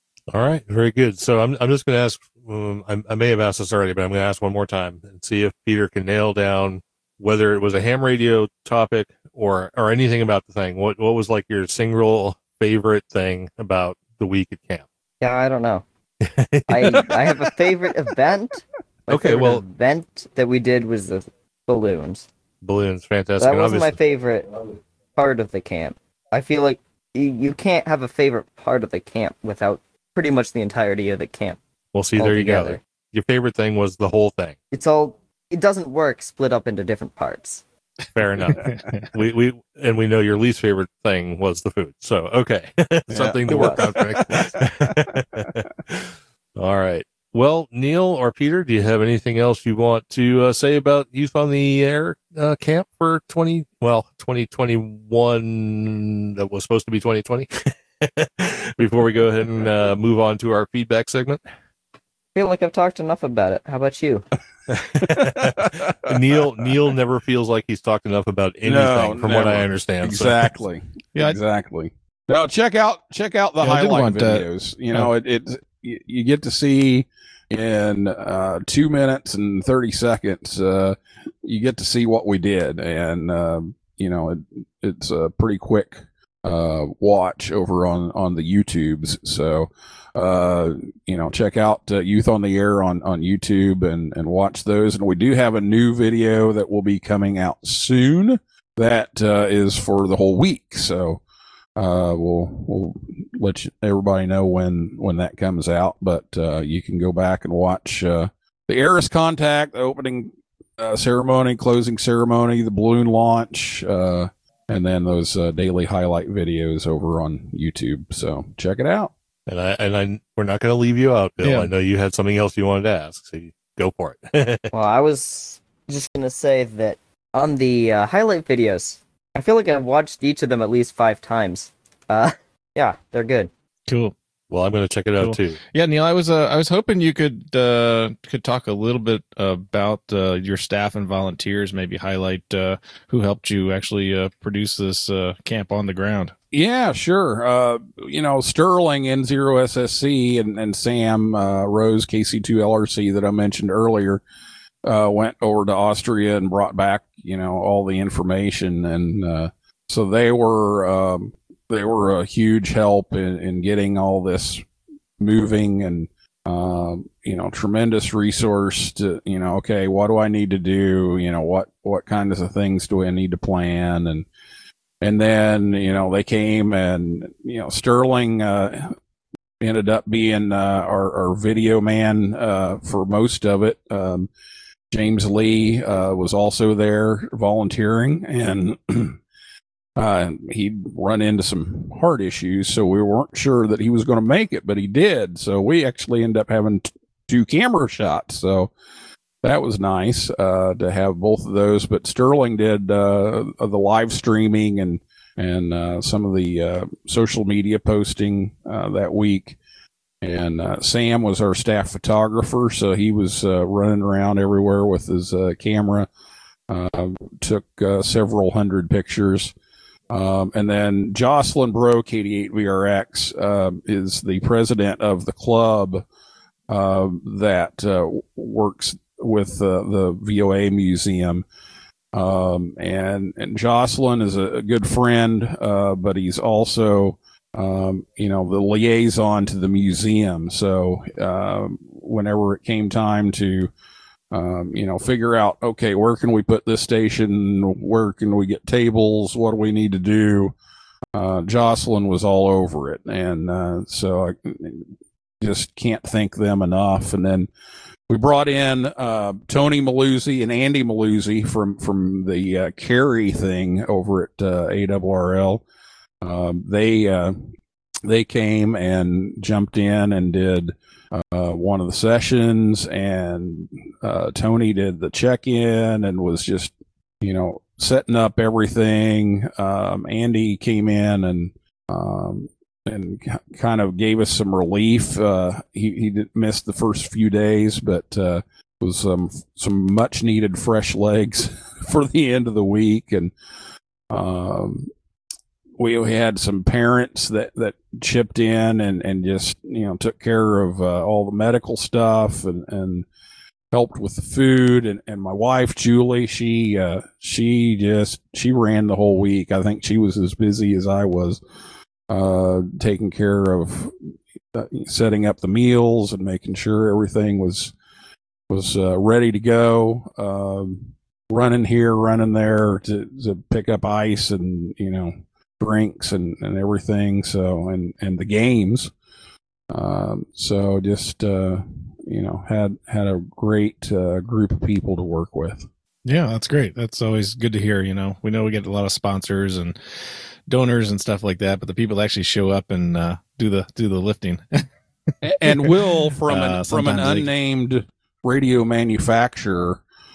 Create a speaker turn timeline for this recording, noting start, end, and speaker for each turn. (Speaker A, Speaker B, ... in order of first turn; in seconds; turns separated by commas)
Speaker A: 0.3-14.8, Speaker B: 15.2-15.8, Speaker A: 16.2-17.1, Speaker B: 16.7-22.3, Speaker A: 19.1-19.6, Speaker A: 22.6-24.0, Speaker B: 23.4-31.6, Speaker A: 31.9-34.5, Speaker B: 32.2-32.8, Speaker B: 34.7-37.6, Speaker A: 38.1-61.4, Speaker C: 38.5-39.1, Speaker D: 43.1-45.1, Speaker B: 43.5-43.8, Speaker B: 62.3-64.2, Speaker A: 64.7-70.4, Speaker D: 65.0-65.7, Speaker D: 68.6-101.2, Speaker C: 73.6-75.1, Speaker D: 101.8-119.1, Speaker A: 119.5-124.7, Speaker C: 121.4-121.7, Speaker B: 124.7-133.5, Speaker C: 133.9-134.1, Speaker A: 134.5-135.6, Speaker C: 135.2-146.3, Speaker D: 146.5-154.2, Speaker D: 154.8-164.7, Speaker D: 165.2-174.3, Speaker D: 175.0-178.9, Speaker D: 179.6-184.3, Speaker D: 184.9-189.2, Speaker D: 190.0-198.7, Speaker D: 199.4-209.6, Speaker D: 210.2-216.1, Speaker D: 216.7-219.5, Speaker D: 220.1-226.1, Speaker D: 226.7-231.4, Speaker D: 232.1-243.7, Speaker D: 244.3-250.5, Speaker D: 251.1-257.5, Speaker D: 258.1-265.6, Speaker D: 266.2-267.5, Speaker D: 268.0-293.3, Speaker D: 294.1-294.9, Speaker D: 295.8-303.1, Speaker D: 303.7-311.4, Speaker D: 312.1-313.9, Speaker D: 314.5-317.7, Speaker D: 318.5-328.9, Speaker D: 329.7-335.7, Speaker C: 336.0-339.8, Speaker C: 340.5-344.6, Speaker D: 345.2-349.8, Speaker C: 345.5-345.7, Speaker C: 346.2-347.3